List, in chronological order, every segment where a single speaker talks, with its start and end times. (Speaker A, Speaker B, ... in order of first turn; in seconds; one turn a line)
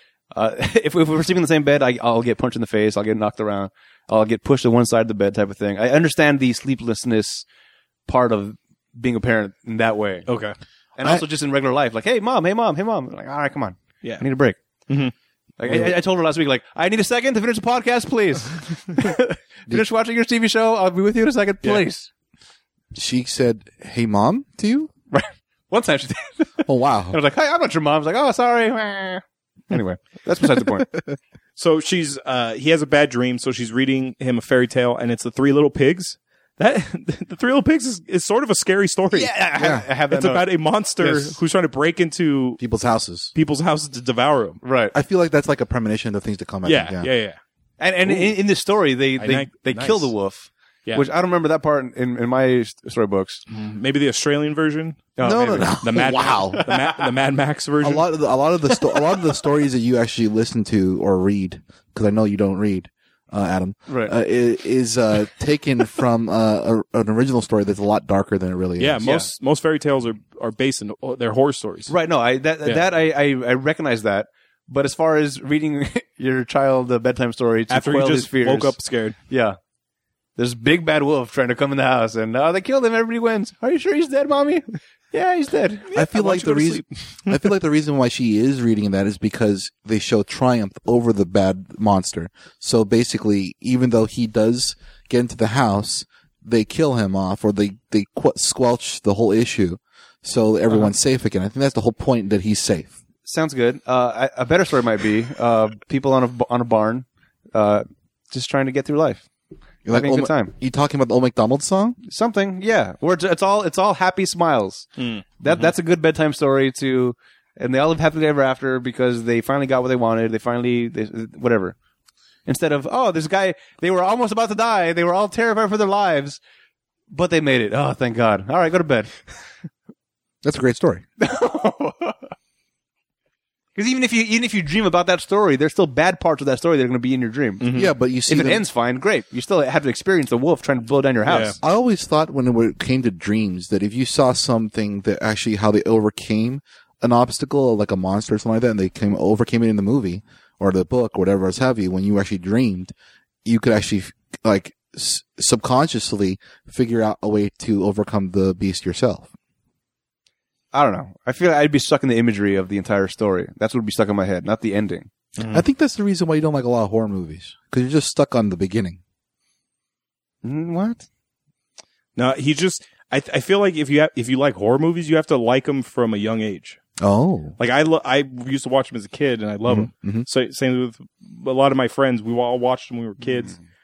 Speaker A: 0.3-7.5
Speaker A: 8.1-10.3
Speaker B: 10.3-10.6
Speaker A: 11.0-14.6
Speaker B: 14.9-15.1
Speaker A: 15.6-22.1
Speaker C: 22.9-24.9
Speaker A: 25.1-30.9
Speaker C: 26.6-27.2
Speaker B: 31.6-39.4
Speaker A: 39.1-40.5
Speaker C: 39.6-39.9
Speaker B: 40.1-42.6
Speaker A: 41.0-41.4
Speaker C: 42.6-43.3
Speaker B: 43.3-44.6
Speaker A: 44.6-44.9
Speaker C: 44.9-47.1
Speaker B: 46.6-47.4
Speaker A: 47.8-53.4
Speaker B: 48.0-48.3
Speaker B: 49.2-50.1
Speaker B: 53.5-55.1
Speaker A: 55.1-55.9
Speaker C: 55.2-56.7
Speaker B: 55.8-58.1
Speaker A: 56.6-57.0
Speaker C: 57.8-69.0
Speaker A: 58.7-59.1
Speaker A: 63.9-64.1
Speaker B: 68.8-71.9
Speaker A: 69.0-69.3
Speaker A: 71.9-78.8
Speaker B: 77.7-79.2
Speaker A: 79.3-79.6
Speaker A: 80.4-85.9
Speaker B: 85.9-87.5
Speaker C: 85.9-102.9
Speaker A: 103.2-109.2
Speaker C: 109.8-112.0
Speaker A: 109.9-110.5
Speaker A: 112.0-114.9
Speaker B: 115.0-115.7
Speaker A: 115.4-121.8
Speaker A: 122.5-126.4
Speaker A: 127.1-129.2
Speaker C: 130.4-131.0
Speaker A: 131.2-132.2
Speaker A: 133.8-141.6
Speaker B: 137.6-137.9
Speaker C: 137.7-138.6
Speaker B: 141.2-141.6
Speaker C: 141.6-152.9
Speaker C: 153.4-159.3
Speaker A: 160.7-165.1
Speaker B: 165.4-165.6
Speaker C: 165.5-169.0
Speaker A: 170.4-171.0
Speaker B: 172.2-176.8
Speaker C: 177.0-177.6
Speaker B: 177.6-183.6
Speaker C: 179.7-180.2